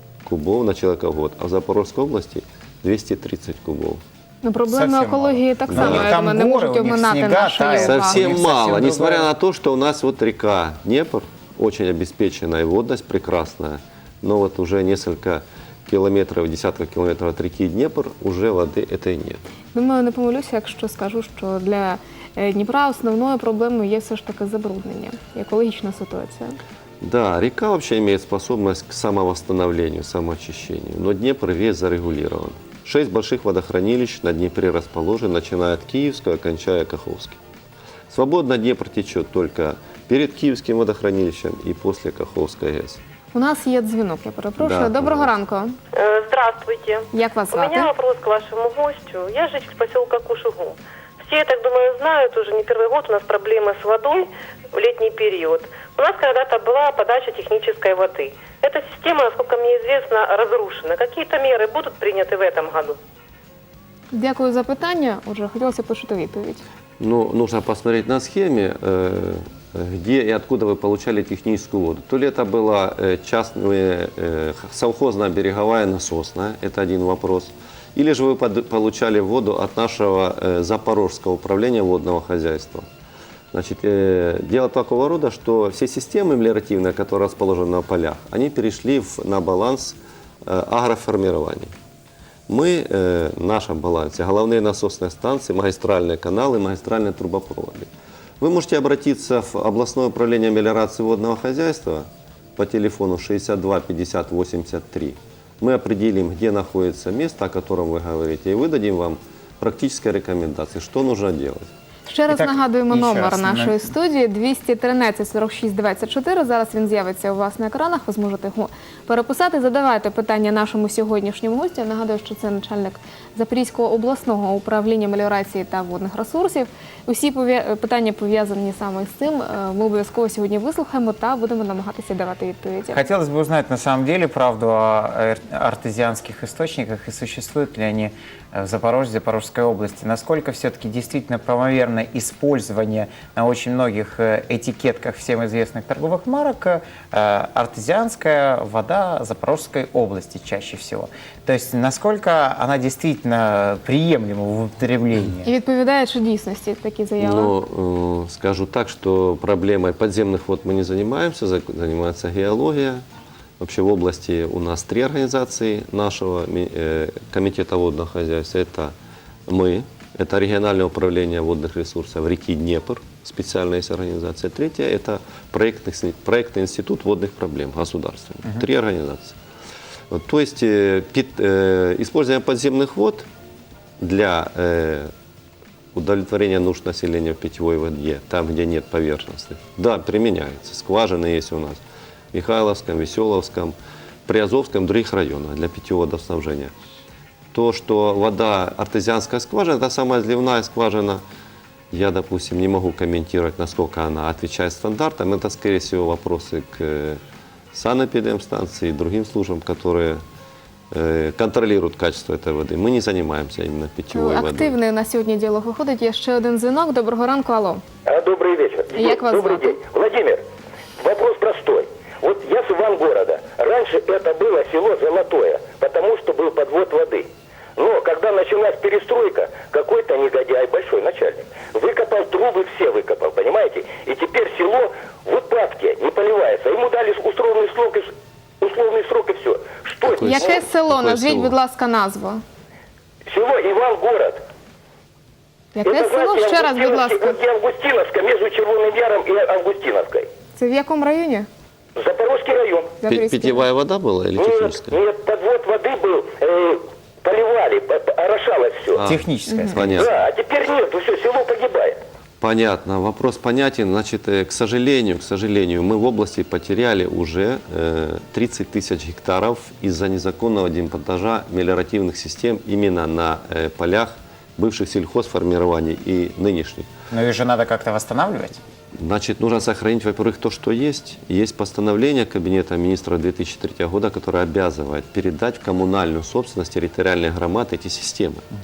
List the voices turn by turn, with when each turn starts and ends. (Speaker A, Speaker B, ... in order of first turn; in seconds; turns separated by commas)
Speaker A: 0.2-4.0, Speaker B: 4.4-8.3, Speaker C: 4.7-9.3, Speaker A: 5.7-6.2, Speaker A: 7.8-19.4, Speaker B: 19.7-26.6, Speaker A: 27.0-37.4, Speaker A: 38.1-43.0, Speaker B: 43.3-45.8, Speaker A: 44.6-45.3, Speaker D: 45.9-63.0, Speaker B: 47.1-47.9, Speaker B: 64.1-66.6, Speaker A: 67.0-82.9, Speaker A: 83.5-91.7, Speaker A: 92.5-97.9, Speaker A: 98.4-111.7, Speaker B: 112.1-133.0, Speaker C: 112.3-113.9, Speaker C: 132.9-155.5, Speaker B: 155.4-157.5, Speaker A: 157.2-163.0, Speaker A: 163.6-168.9, Speaker A: 169.5-179.4, Speaker A: 180.1-183.3, Speaker A: 184.0-185.1, Speaker A: 185.9-191.8, Speaker A: 192.3-196.7, Speaker A: 197.5-201.2, Speaker A: 201.9-207.2, Speaker A: 207.7-210.2, Speaker A: 210.9-214.8, Speaker B: 214.1-217.8, Speaker E: 218.1-220.4, Speaker B: 218.9-219.8, Speaker E: 221.0-240.6, Speaker A: 240.1-241.6, Speaker B: 240.1-242.4, Speaker E: 243.3-244.4, Speaker B: 245.7-247.4, Speaker E: 245.8-250.3, Speaker B: 250.6-251.5, Speaker E: 251.9-253.0, Speaker B: 253.0-253.6, Speaker A: 253.1-255.0, Speaker E: 254.4-259.0, Speaker A: 258.9-260.2, Speaker C: 259.0-260.1, Speaker E: 259.9-262.0, Speaker A: 262.4-276.9, Speaker C: 277.1-278.6, Speaker A: 278.9-288.5